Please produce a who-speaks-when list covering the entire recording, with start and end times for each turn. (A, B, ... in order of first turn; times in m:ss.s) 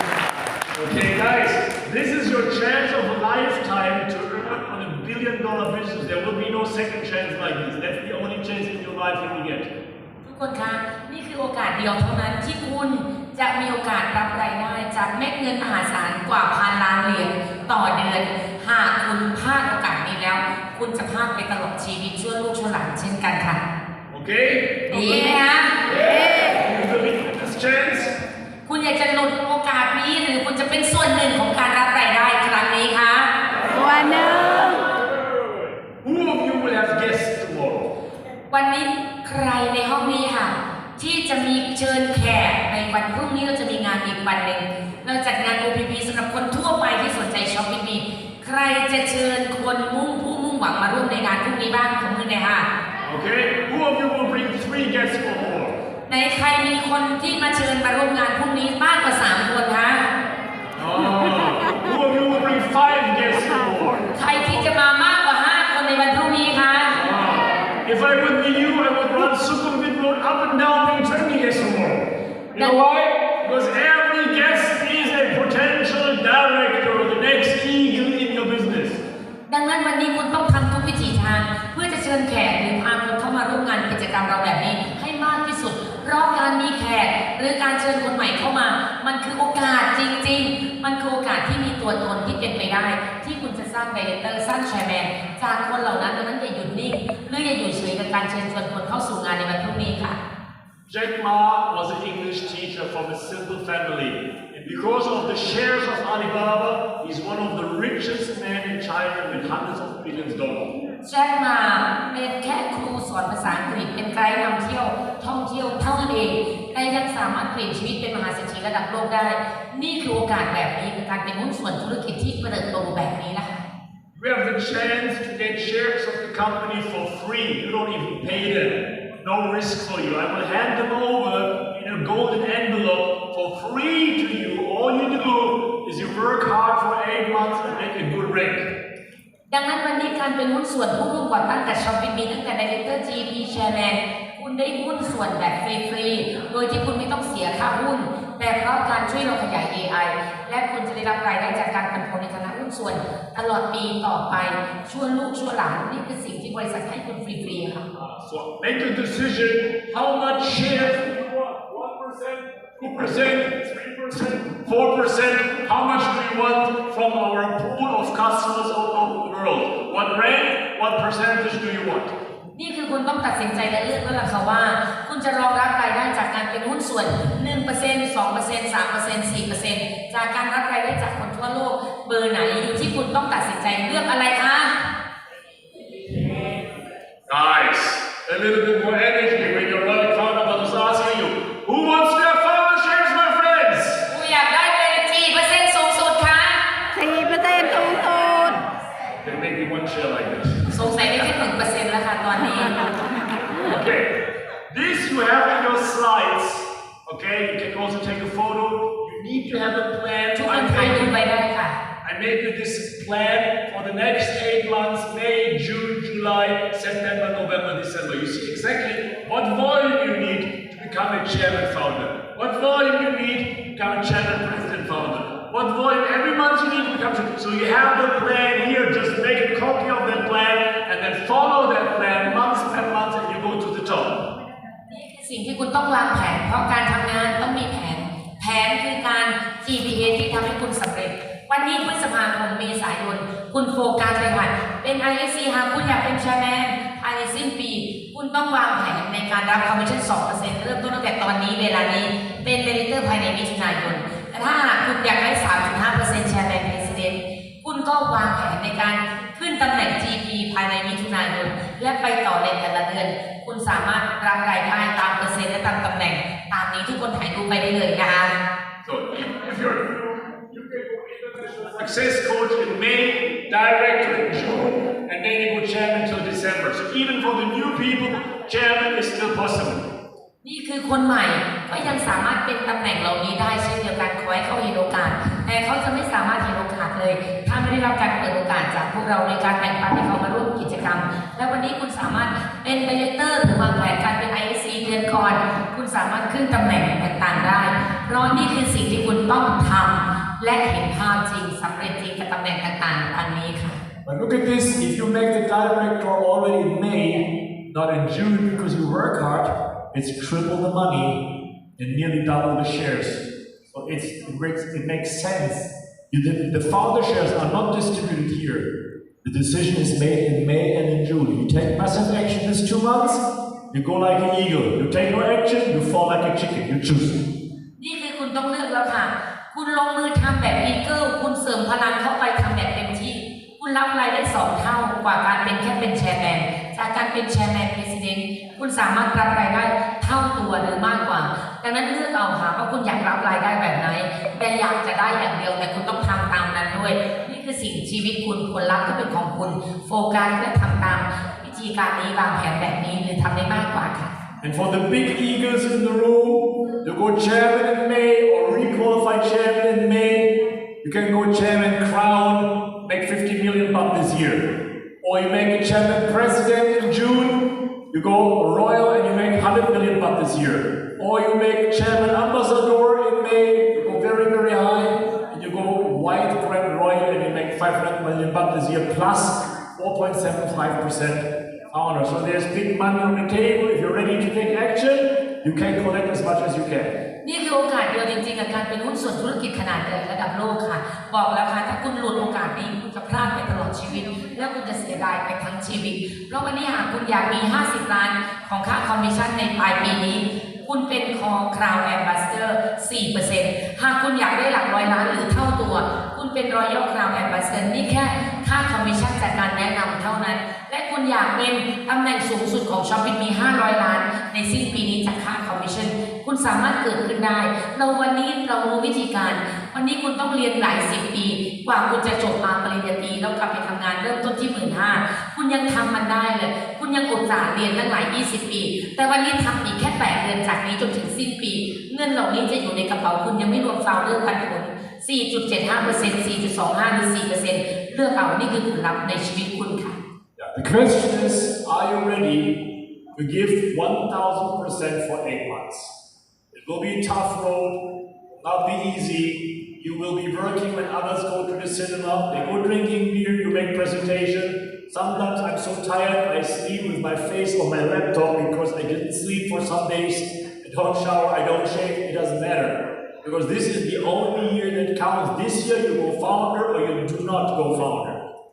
0:00.7-0:09.7 A
0:10.2-0:23.6 B
0:24.1-0:28.2 A
0:24.9-0:25.8 B
0:25.9-0:26.6 C
0:28.6-0:33.3 B
0:33.7-0:34.8 C
0:35.4-0:37.9 A
0:38.5-0:52.7 B
0:53.0-0:55.8 A
0:56.1-1:00.1 B
1:00.7-1:04.7 A
1:01.4-1:01.7 C
1:04.2-1:07.0 B
1:06.9-1:19.0 A
1:19.5-1:40.2 B
1:40.9-1:50.7 A
1:51.0-2:03.7 B
2:04.1-2:18.7 A
2:19.5-2:37.9 B
2:37.9-2:52.2 A
2:52.6-3:04.8 B
3:07.3-3:14.1 A
3:14.1-3:16.6 B
3:16.9-3:18.6 C
3:19.2-3:20.8 A
3:20.7-3:22.8 B
3:23.6-3:31.1 A
3:30.4-3:31.8 B
3:32.0-3:54.2 A
3:54.9-4:28.4 B
4:28.8-4:39.8 A
4:40.4-5:03.8 B
5:04.0-5:11.2 A
5:11.8-5:18.7 A
5:19.2-5:27.2 A
5:27.8-5:54.1 B
5:54.4-6:26.9 A
6:27.2-7:20.0 B
7:20.4-7:22.6 A
7:23.1-7:25.9 A
7:26.5-7:27.8 A
7:28.4-7:48.2 A